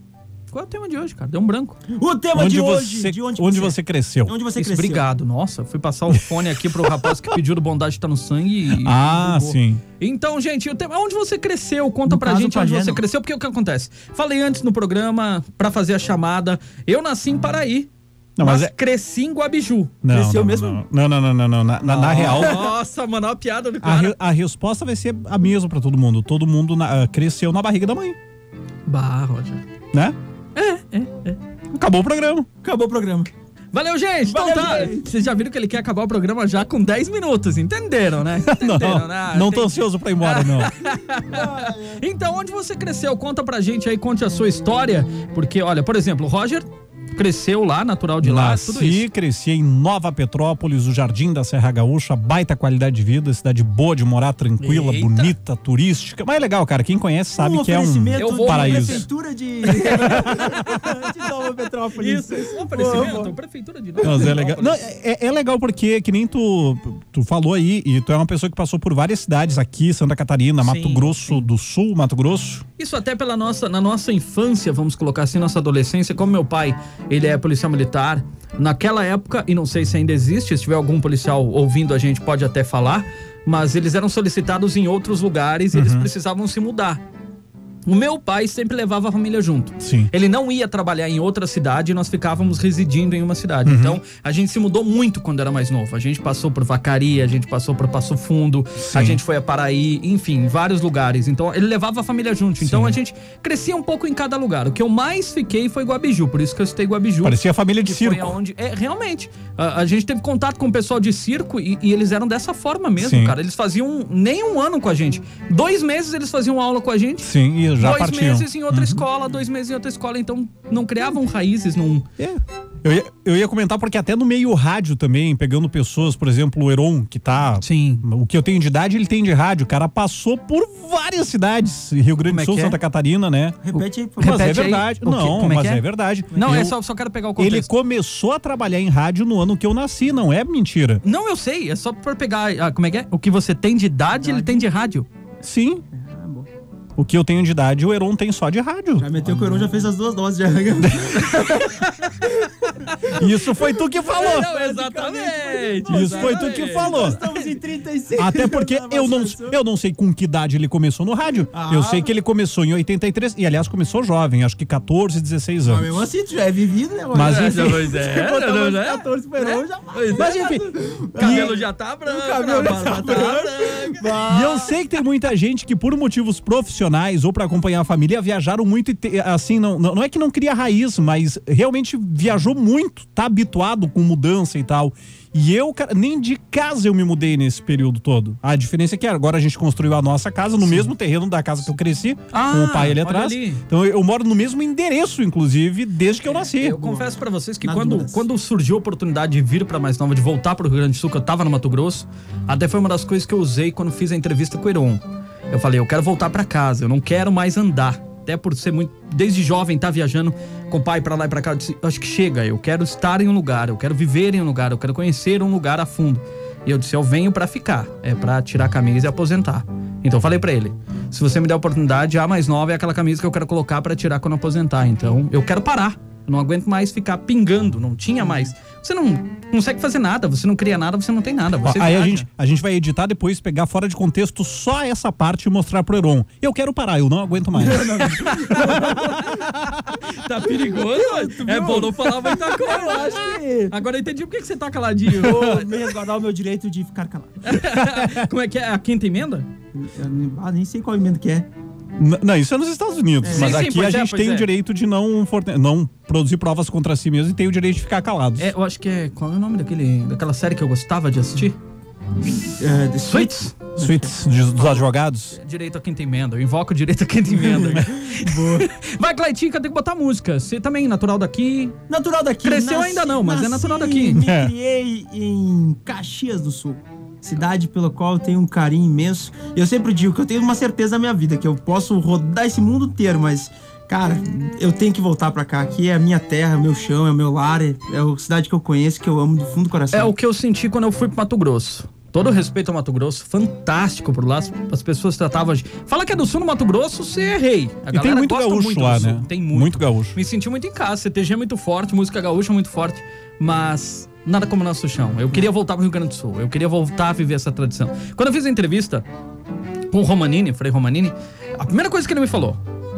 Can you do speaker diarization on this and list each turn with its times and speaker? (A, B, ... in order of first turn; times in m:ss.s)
0:00.5-0:01.8 A
0:01.9-0:05.1 B
0:02.3-0:04.3 C
0:04.6-0:20.0 A
0:06.7-0:07.1 C
0:08.7-0:09.8 C
0:12.1-0:13.0 B
0:18.4-0:18.7 C
0:20.0-0:22.7 C
0:20.1-0:20.8 B
0:21.8-0:24.2 A
0:23.8-0:28.2 C
0:28.9-0:29.6 A
0:30.6-0:31.4 A
0:31.7-0:32.5 C
0:32.6-0:33.3 B
0:33.7-0:49.1 A
0:34.3-0:35.1 B
0:38.4-0:40.7 C
0:41.3-0:42.0 B
0:48.2-0:59.1 C
0:54.6-0:55.3 A
0:57.4-1:03.4 B
0:58.2-0:59.1 A
0:59.6-1:00.3 A
0:59.7-1:00.9 C
1:02.0-1:04.8 A
1:04.0-1:12.6 C
1:04.0-1:04.3 B
1:10.6-1:11.5 A
1:12.8-1:27.0 A
1:25.7-1:26.1 C
1:27.9-2:02.1 A
1:29.8-1:30.1 C
1:33.6-1:34.0 C
1:38.8-1:39.2 C
1:42.6-1:43.0 C
1:47.2-1:48.4 C
1:53.0-1:53.4 C
1:57.2-1:59.0 C
2:02.2-2:16.8 C
2:07.6-2:08.0 A
2:12.3-2:12.8 A
2:13.6-2:14.7 B
2:14.2-2:17.7 A
2:16.4-2:16.6 B
2:17.4-2:21.0 C
2:21.0-2:25.1 A
2:24.1-2:24.7 B
2:25.4-2:25.8 C
2:25.9-2:26.5 B
2:27.0-2:29.6 C
2:29.0-2:31.7 B
2:29.3-2:29.7 A
2:30.8-2:31.2 C
2:31.2-2:32.3 A
2:32.3-2:32.7 B
2:32.8-2:33.2 A
2:33.1-2:34.6 C
2:34.0-2:37.5 A
2:34.3-2:39.6 B
2:35.9-2:37.2 C
2:38.2-2:45.9 C
2:41.5-2:42.1 B
2:45.6-2:54.7 B
2:47.1-2:47.8 C
2:47.2-2:50.4 A
2:50.2-2:51.6 C
2:51.2-2:54.2 A
2:54.3-3:16.8 C
3:10.6-3:10.9 A
3:12.3-3:13.6 A
3:16.3-3:52.3 A
3:16.8-3:18.2 B
3:51.6-3:59.8 C
3:57.6-3:59.2 B
3:58.0-4:05.7 A
4:00.8-4:03.8 B
4:05.1-4:07.6 B
4:07.4-4:09.5 A
4:07.8-4:08.2 C
4:09.8-4:11.5 B
4:12.0-4:18.5 C
4:13.2-4:13.7 B
4:13.3-4:14.5 A
4:18.4-4:21.6 A
4:22.5-4:24.1 B
4:23.0-4:23.6 A
4:23.8-4:25.4 C
4:24.6-4:31.8 A
4:27.3-4:28.7 B
4:31.9-4:50.1 B
4:32.4-4:34.2 A
4:34.2-4:34.5 C
4:49.9-5:09.1 A
4:57.9-5:00.2 C
5:09.9-5:12.6 A